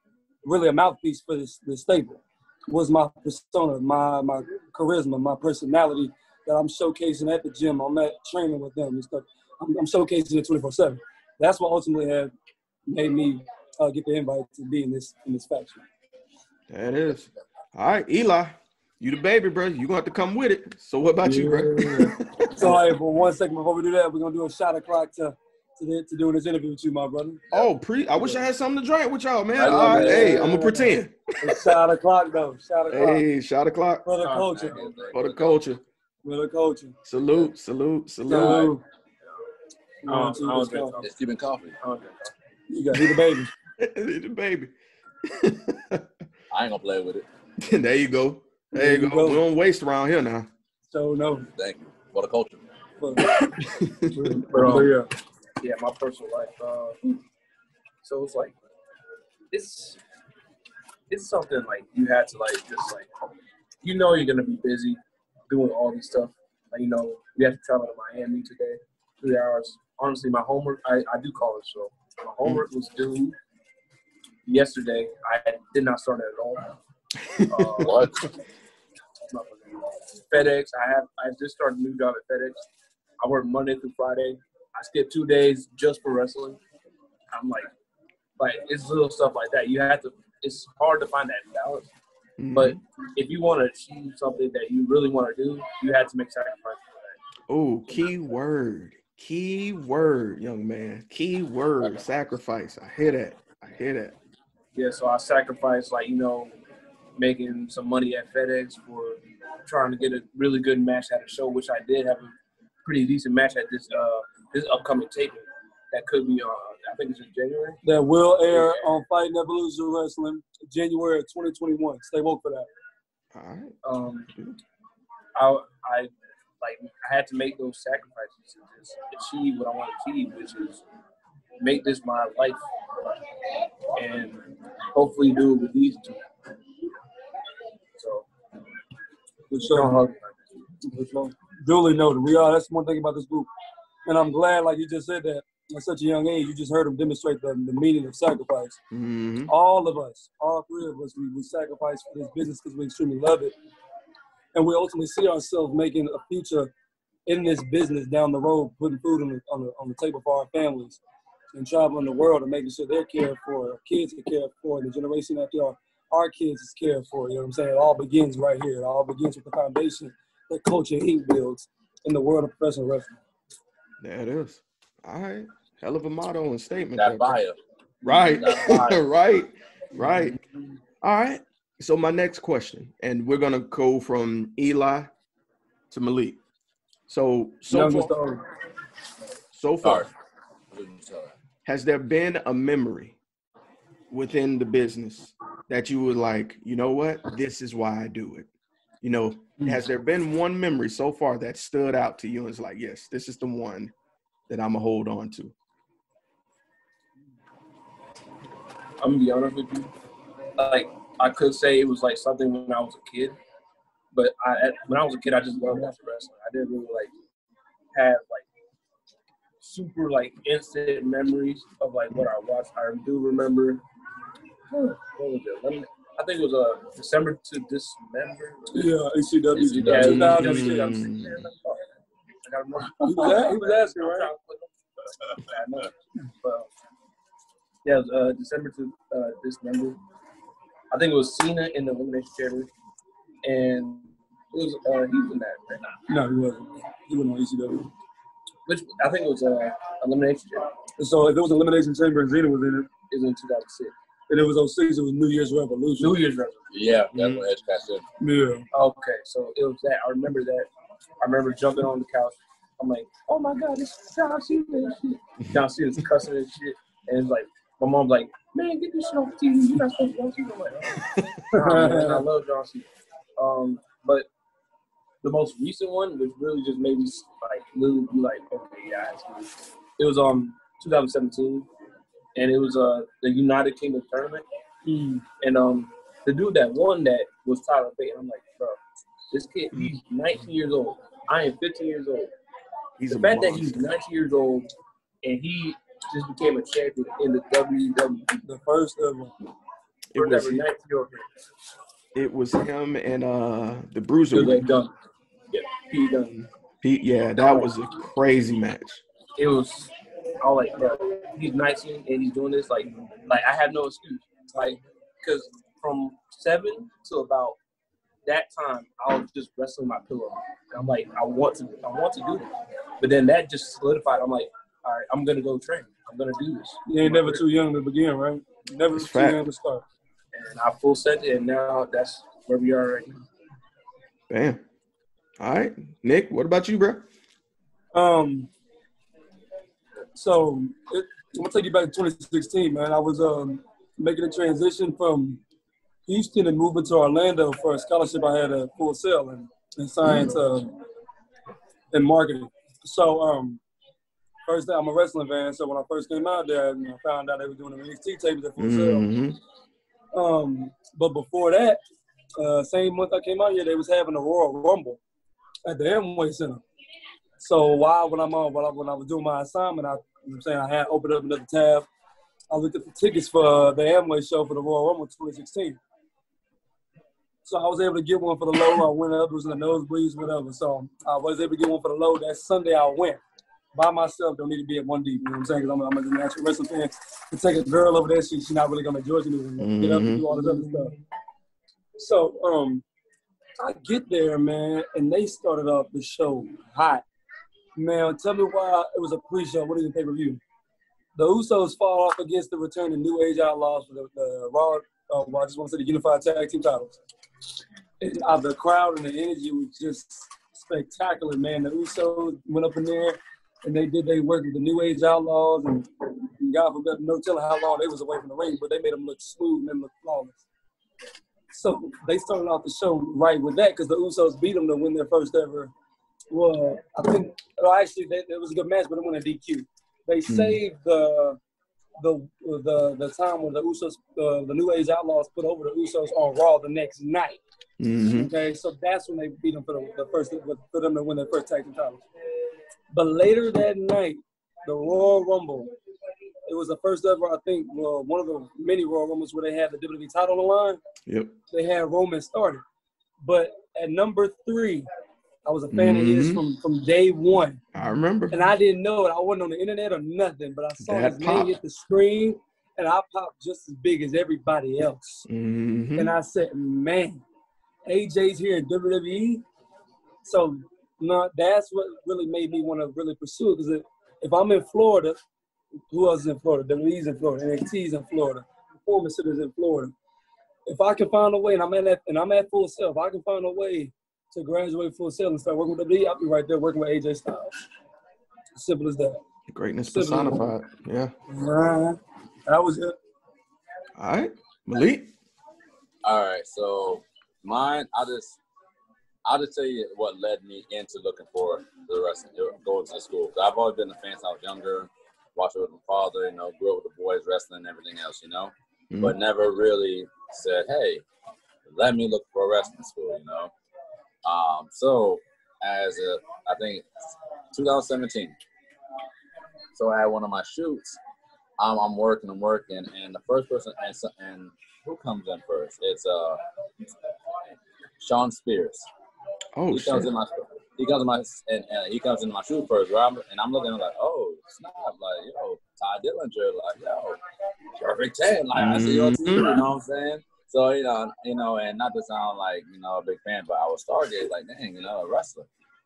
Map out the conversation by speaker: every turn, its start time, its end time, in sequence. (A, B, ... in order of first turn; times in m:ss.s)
0:00.4-0:12.3 A
0:12.9-0:15.8 A
0:16.7-0:22.9 B
0:21.2-0:22.1 C
0:22.6-0:27.4 A
0:27.5-0:31.8 B
0:29.6-0:30.8 C
0:29.8-0:30.9 A
0:31.4-0:33.2 A
0:32.9-0:34.1 B
0:34.0-0:34.8 A
0:34.2-0:34.8 C
0:34.3-0:35.6 D
0:35.1-0:35.8 B
0:36.2-0:37.0 A
0:37.0-0:38.8 B
0:38.3-0:38.8 A
0:38.3-0:38.7 C
0:40.0-0:41.0 A
0:40.1-0:41.1 C
0:41.0-0:41.8 D
0:41.8-0:42.3 C
0:42.7-0:43.5 A
0:43.0-0:43.2 B
0:43.8-0:46.1 B
0:46.5-0:47.3 D
0:47.6-0:50.5 B
0:48.7-0:49.4 A
0:50.9-0:51.5 A
0:51.6-0:52.6 D
0:53.0-0:53.4 A
0:53.5-0:54.4 B
0:54.1-0:55.1 A
0:54.5-0:54.9 C
0:55.6-0:57.2 C
0:58.0-0:58.6 C
0:59.5-1:00.0 C
1:01.1-1:03.1 C
1:03.8-1:13.4 C
1:14.4-1:16.8 C
1:17.2-1:18.1 B
1:17.5-1:18.3 C
1:17.8-1:18.3 D
1:19.3-1:22.6 C
1:23.2-1:26.6 C
1:27.3-1:27.7 C
1:28.4-1:31.9 C
1:32.4-1:32.8 B
1:32.5-1:37.2 C
1:37.5-1:44.2 B
1:44.8-1:46.6 C
1:47.2-1:57.8 C
1:57.8-2:02.7 A
1:58.5-1:58.8 C
2:03.3-2:03.8 B
2:03.8-2:04.3 C
2:04.3-2:04.6 B
2:05.4-2:10.8 C
2:11.6-2:12.6 C
2:13.9-2:16.3 C
2:18.0-2:18.3 C
2:19.5-2:20.0 A
2:19.6-2:20.5 C
2:20.8-2:23.5 A
2:24.1-2:28.8 A
2:28.9-2:29.5 B
2:29.5-2:33.5 A
2:34.5-2:36.7 A
2:37.3-2:41.0 A
2:41.5-2:53.2 A
2:54.0-2:57.4 B
2:57.0-2:57.6 D
2:58.0-2:59.0 C
2:58.0-3:00.4 B
2:58.1-2:58.9 D
3:01.0-3:05.1 B
3:05.9-3:06.4 B
3:07.1-3:08.1 B
3:07.7-3:08.4 A
3:09.5-3:10.1 B
3:09.8-3:10.1 D
3:10.7-3:11.3 D
3:11.7-3:13.2 B
3:14.1-3:18.5 B
3:19.0-3:23.9 B
3:24.5-3:25.5 B
3:29.0-3:29.9 C
3:30.6-3:33.4 C
3:34.1-3:37.1 C
3:37.9-3:38.5 C
3:39.6-3:43.8 C
3:44.7-3:48.9 C
3:48.7-3:51.1 A
3:49.6-3:50.4 D
3:49.8-3:51.9 C
3:50.0-3:51.4 B
3:52.4-3:56.7 C
3:53.0-3:54.3 A
3:57.8-4:00.0 C
4:00.9-4:02.7 C
4:03.4-4:06.0 C
4:06.1-4:07.9 A
4:08.6-4:10.7 C
4:11.0-4:12.9 A
4:13.1-4:13.9 C
4:14.3-4:16.2 A
4:16.0-4:16.6 C
4:16.7-4:18.0 D
4:17.1-4:17.4 B
4:18.2-4:18.6 A
4:18.7-4:20.7 C
4:21.2-4:32.9 C
4:31.0-4:31.4 B
4:31.6-4:32.3 A
4:33.4-4:34.3 C
4:35.2-4:41.7 C
4:42.4-4:44.4 C
4:44.8-4:45.2 A
4:45.4-4:48.8 C
4:49.3-4:52.3 C
4:53.0-4:53.8 B
4:53.1-4:54.7 C
4:55.2-4:58.3 C
4:58.4-4:59.3 A
5:00.1-5:00.6 B
5:00.2-5:01.4 C
5:02.2-5:04.7 B
5:04.3-5:04.9 C
5:05.5-5:06.4 C
5:06.8-5:09.0 B
5:07.4-5:07.7 C
5:09.4-5:17.6 C
5:18.3-5:27.4 C
5:26.9-5:29.8 A
5:28.9-5:29.4 B
5:30.3-5:33.2 C
5:34.3-5:34.6 B
5:35.4-5:37.1 B
5:37.9-5:38.5 A
5:40.2-5:45.4 A
5:46.1-5:50.8 A
5:50.0-5:50.4 B
5:51.9-5:53.6 A
5:54.5-5:59.1 A
5:58.6-5:59.4 B
6:00.1-6:01.8 A
6:02.4-6:05.0 A
6:05.6-6:06.6 A
6:07.4-6:11.9 A
6:12.5-6:15.8 A
6:17.4-6:23.2 A
6:23.8-6:31.0 A
6:29.6-6:30.2 B
6:32.0-6:32.8 A
6:33.6-6:37.0 A
6:37.8-6:40.4 A
6:41.2-6:47.0 A
6:48.0-7:00.4 A
7:01.5-7:05.7 A
7:06.3-7:11.4 A
7:10.3-7:10.6 B
7:12.0-7:17.4 A
7:17.8-7:18.3 B
7:18.1-7:22.0 A
7:22.9-7:25.7 A
7:26.5-7:30.8 A
7:31.1-7:31.3 B
7:31.5-7:32.6 A
7:33.2-7:34.9 A
7:35.4-7:37.6 A
7:35.7-7:36.4 B
7:37.7-7:38.4 B
7:38.3-7:45.3 A
7:40.8-7:41.6 B
7:45.3-7:46.1 B
7:46.0-7:47.2 A
7:47.9-7:49.4 A
7:50.2-7:55.2 A
7:55.9-7:59.9 A
8:00.7-8:07.5 A
8:08.6-8:09.2 A
8:09.5-8:11.1 B
8:09.9-8:10.5 A
8:11.3-8:13.0 A
8:14.0-8:15.1 B
8:16.0-8:18.4 D
8:19.2-8:31.0 D
8:28.9-8:29.2 B
8:31.7-8:33.5 D
8:34.2-8:38.4 D
8:39.8-8:41.0 D
8:41.6-8:46.4 D
8:48.0-8:48.9 D
8:49.6-8:50.1 B
8:49.7-8:57.2 D
8:57.8-9:05.5 D
8:58.5-8:59.6 B